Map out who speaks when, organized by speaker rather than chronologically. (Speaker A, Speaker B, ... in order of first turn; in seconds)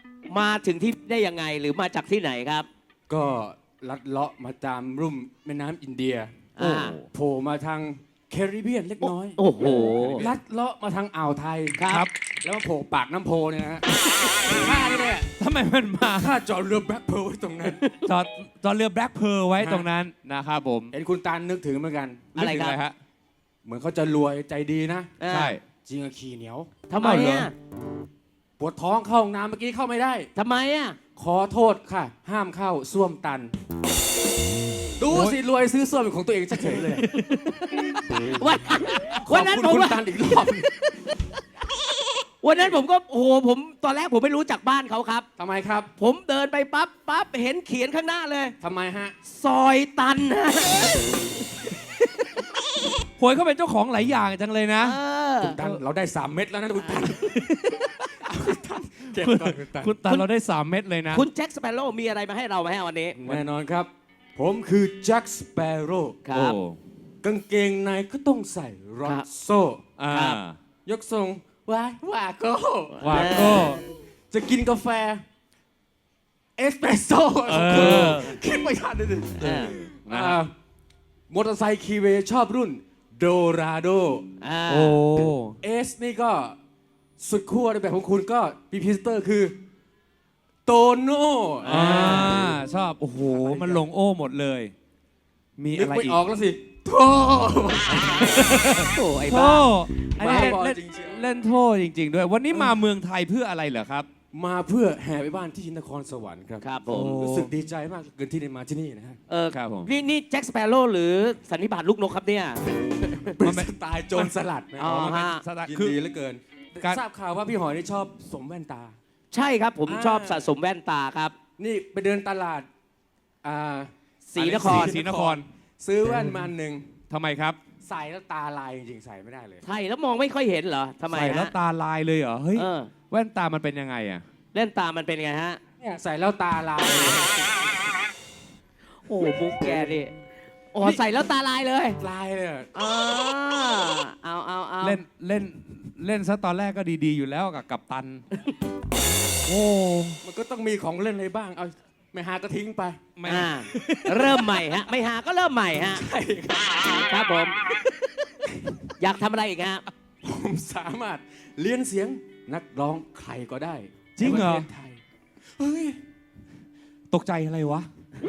Speaker A: 0.3-2.7, 6.6-7.0, 9.4-10.2, 11.8-12.1, 17.6-18.0, 22.4-22.8, 25.2-25.6, 26.9-27.5, 30.4-31.0, 37.3-37.7, 38.3-40.0, 42.4-45.3, 46.0-48.5, 49.3-51.4, 54.8-55.6, 61.1-63.2, 66.2-66.6, 70.1-70.4, 72.9-73.7, 79.4-79.8, 84.4-85.0, 91.6-92.4, 98.9-99.7, 106.6-107.2, 109.3-113.3, 114.8-115.4, 119.3-121.3, 124.3-124.9, 129.7-131.5, 132.6-132.9, 134.5-135.6, 139.1-140.1, 140.7-142.0, 142.8-145.0, 153.2-156.0, 156.9-157.6, 159.0-159.9
Speaker B: 3.1-6.3, 7.1-9.4, 10.2-11.8, 12.4-13.8, 14.4-15.3, 16.1-17.8, 19.6-19.9, 20.9-22.4, 23.6-25.1, 25.9-26.7, 28.6-30.3, 31.2-33.5, 35.0-37.1, 39.2-41.0, 45.4-45.9, 48.6-49.1, 55.4-57.4, 58.2-60.2, 63.2-66.2, 67.2-69.8, 70.8-75.2, 76.6-80.5, 81.3-84.3, 85.6-86.6, 87.2-89.6, 90.7-92.5, 93.3-93.8, 95.7-98.5, 100.2-101.2, 102.5-102.8, 104.3-106.7, 107.2-109.2, 113.2-119.0, 119.8-120.5, 121.6-122.7, 123.4-126.9, 127.8-129.6, 135.8-137.4, 142.0-142.7, 150.2-153.1, 155.7-156.9, 160.2-165.0, 165.6-166.0
Speaker C: 6.6-7.1, 9.9-10.3, 15.4-16.4, 18.1-20.9, 22.4-23.0, 25.3-25.6, 27.0-27.5, 35.1-35.4, 36.7-37.1, 53.2-55.0, 57.1-58.0, 59.1-61.2, 66.3-66.8, 70.0-70.6, 73.0-73.8, 77.5-78.4, 79.8-80.4, 84.7-85.6, 91.7-94.7, 95.6-96.2, 98.3-104.1, 106.9-107.5, 109.5-109.9, 113.4-114.3, 115.0-116.0, 124.5-125.5, 126.1-126.5, 127.1-127.6, 131.1-134.2, 144.8-148.2, 149.5-150.2, 153.2-154.6, 164.2-164.7, 167.1-167.9